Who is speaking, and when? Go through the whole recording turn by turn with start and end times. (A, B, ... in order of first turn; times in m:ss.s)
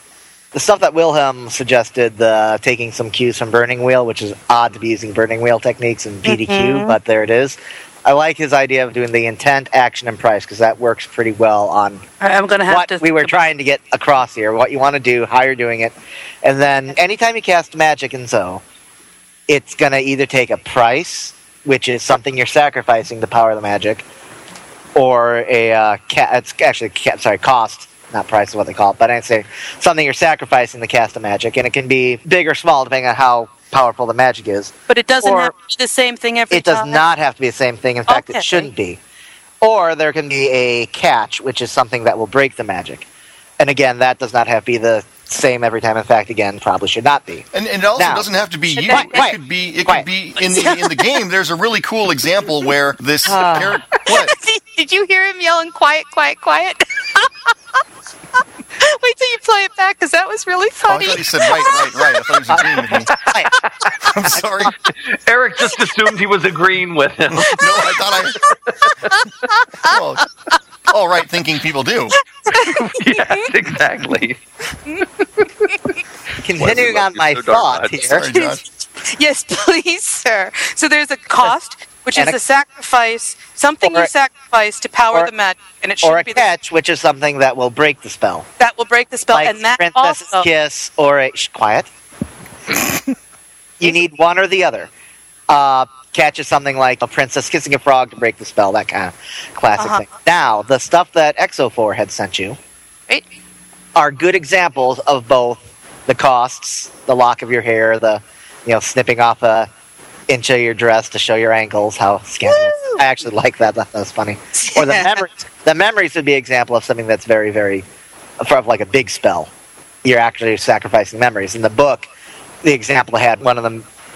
0:00.5-0:12.0 A
0:06.2-0:07.0 B
0:12.2-0:13.4 B
0:12.7-0:18.6 A
0:19.5-0:24.0 A
0:24.9-0:35.5 A
0:34.9-0:37.0 B
0:36.5-0:39.0 A
0:38.1-0:38.7 B
0:39.6-0:43.0 A
0:43.6-0:48.3 A
0:47.5-0:54.3 C
0:48.7-0:49.3 B
0:48.9-0:50.1 A
0:50.4-0:51.2 B
0:53.3-0:53.8 A
0:54.0-0:57.5 B
0:58.8-1:02.2 B
1:00.9-1:03.1 C
1:03.2-1:03.5 A
1:04.0-1:04.7 C
1:05.2-1:07.6 D
1:07.3-1:08.4 C
1:08.8-1:10.0 B
1:09.8-1:10.3 C
1:10.9-1:12.2 C
1:12.5-1:13.4 B
1:12.7-1:14.4 D
1:16.4-1:18.2 A
1:16.6-1:18.0 D
1:18.1-1:18.6 C
1:18.3-1:26.5 B
1:23.8-1:24.1 A
1:26.0-1:28.4 A
1:28.6-1:30.5 B
1:29.3-1:31.9 A
1:33.8-1:34.9 A
1:35.5-1:42.6 A
1:39.8-1:40.0 B
1:43.9-1:49.7 A
1:50.3-1:57.8 A
1:52.4-1:53.0 B
1:54.6-1:55.2 B
1:58.4-1:59.5 A
2:00.0-2:02.1 A
2:02.6-2:03.8 A